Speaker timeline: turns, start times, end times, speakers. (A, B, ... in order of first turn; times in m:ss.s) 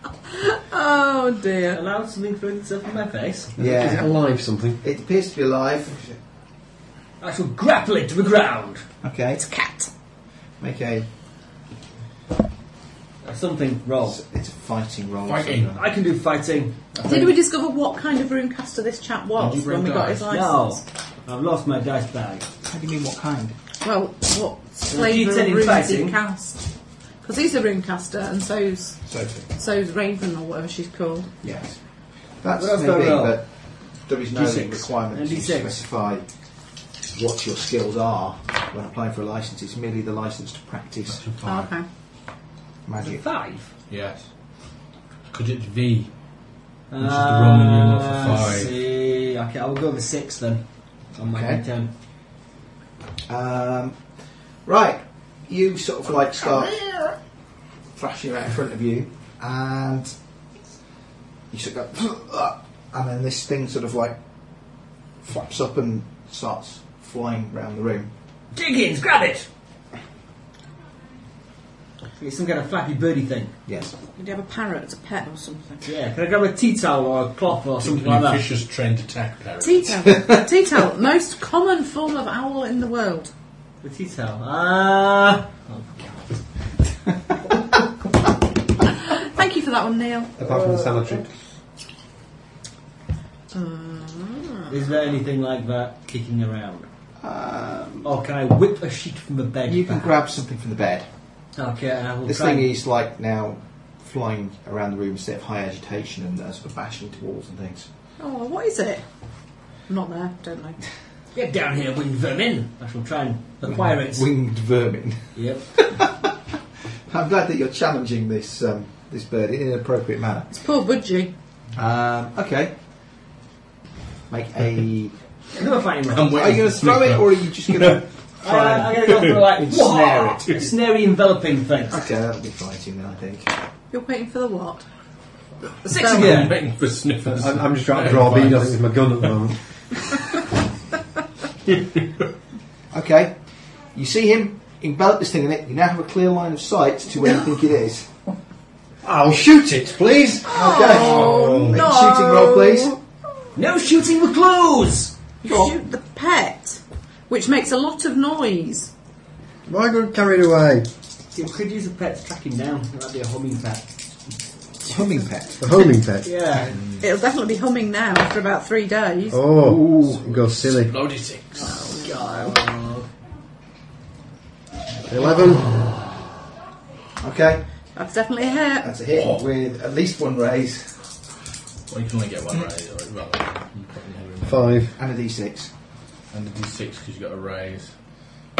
0:00.3-0:01.8 A
0:01.7-0:03.9 B
0:03.6-0:04.2 C
0:03.6-0:04.8 D
0:04.8-0:06.2 C
0:07.2-0:08.9 B
0:09.0-0:09.4 C
0:09.4-0:09.9 A
0:10.6-0:11.1 C
0:13.2-0:14.2 B
0:14.0-0:15.8 C
0:15.3-0:15.7 E
0:15.7-0:17.4 B
0:17.0-0:20.8 A
0:19.4-0:20.3 E
0:20.3-0:22.5 B
0:22.6-0:23.6 C
0:23.8-0:31.3 A
0:24.9-0:26.2 B
0:29.0-0:29.5 C
0:31.4-0:41.4 C
0:32.5-0:35.8 B
0:41.1-0:41.7 E
0:41.4-0:41.9 A
0:42.8-0:43.2 C
0:43.0-0:43.7 B
0:43.9-0:46.4 E
0:46.9-0:51.9 B
0:47.0-0:48.7 E
0:51.2-0:51.6 C
0:53.3-0:56.9 C
0:56.6-0:57.1 B
0:57.9-1:00.2 C
1:01.5-1:08.1 C
1:08.5-1:09.5 B
1:12.2-1:13.6 B
1:13.6-1:14.0 C
1:14.1-1:15.8 A
1:15.8-1:18.5 B
1:17.8-1:20.1 E
1:19.6-1:23.3 A
1:23.8-1:26.3 B
1:28.9-1:30.3 A
1:30.4-1:31.3 D
1:33.5-1:34.7 A
1:34.7-1:36.9 B
1:37.2-1:38.1 C
1:38.0-1:40.1 B
1:39.7-1:41.4 C
1:41.5-1:42.7 B
1:42.2-1:47.9 C
1:48.2-1:50.8 A
1:51.3-1:54.3 B
1:53.6-1:56.3 C
1:55.3-1:55.6 B
1:57.0-2:00.5 C
2:00.5-2:01.3 A
2:01.7-2:02.8 C
2:04.3-2:05.4 C
2:05.5-2:06.4 B
2:06.1-2:09.4 E
2:06.3-2:08.1 C
2:08.4-2:12.0 B
2:09.5-2:10.6 C
2:11.9-2:13.6 C
2:13.9-2:14.9 A
2:15.6-2:16.5 A
2:15.9-2:19.5 E
2:16.0-2:16.6 B
2:17.2-2:19.6 D
2:22.9-2:28.2 C
2:29.0-2:30.8 D
2:30.4-2:33.0 C
2:30.5-2:33.0 A
2:30.9-2:31.8 E
2:33.6-2:35.2 B
2:35.4-2:38.9 A
2:39.6-2:40.9 D
2:41.3-2:43.9 B
2:44.8-2:45.8 C
2:45.6-2:46.4 D
2:46.2-2:46.8 B
2:46.5-2:47.0 C
2:47.0-2:49.4 A
2:49.3-2:51.0 D
2:49.6-2:51.7 E
2:51.6-2:52.6 A
2:51.6-2:53.1 B
2:55.0-2:55.7 D
2:55.2-2:55.8 C
2:57.2-2:57.8 C
2:57.9-2:58.9 A
2:58.8-3:01.1 C
2:59.2-2:59.4 E
3:01.9-3:04.9 E
3:04.4-3:04.9 D
3:05.0-3:05.7 C
3:06.3-3:07.9 E